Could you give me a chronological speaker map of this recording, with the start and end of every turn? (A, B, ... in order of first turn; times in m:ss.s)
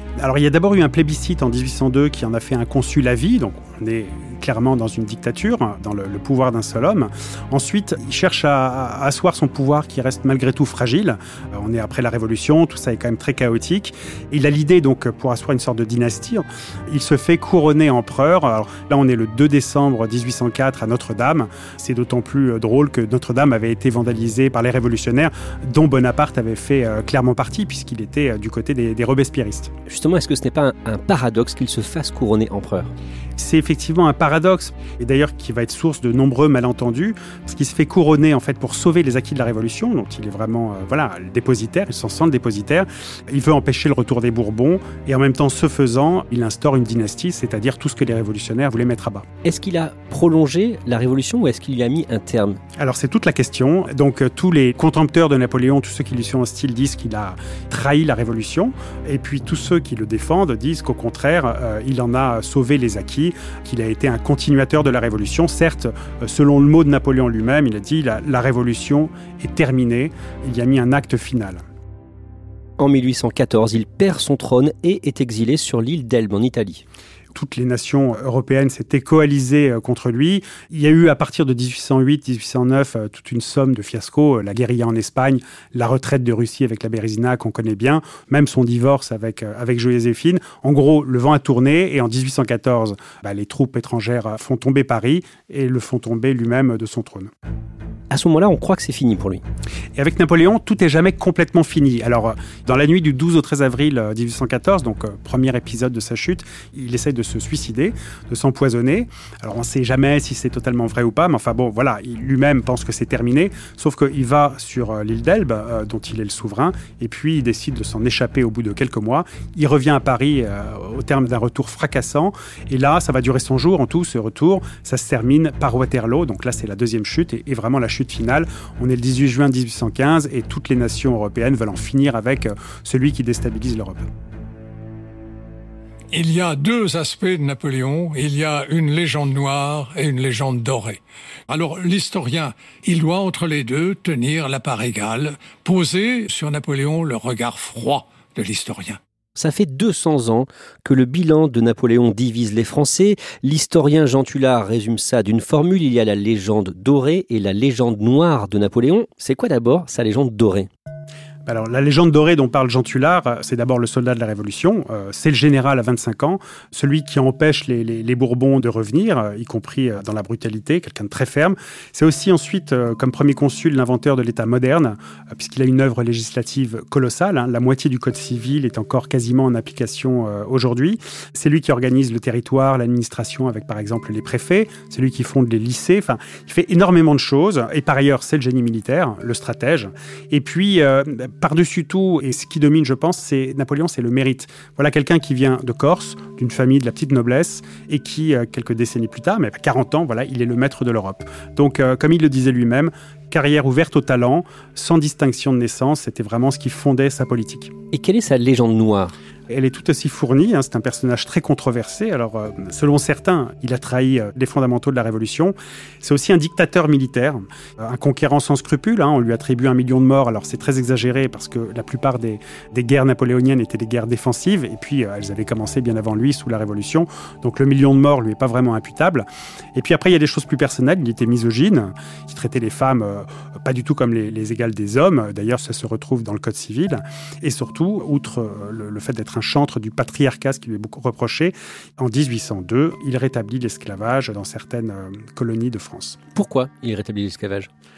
0:00.2-0:29.7 A
0:29.9-0:32.9 B
0:33.4-0:49.3 A
0:49.4-0:52.6 B
0:52.8-1:11.6 A
1:12.8-1:16.8 B
1:17.3-1:37.3 A
1:38.1-1:39.4 B
1:40.0-2:14.1 A
2:16.1-2:29.0 C
2:29.4-2:40.7 B
2:41.5-3:27.7 A
3:27.9-3:29.2 B
3:29.5-4:06.2 A
4:06.4-4:07.7 B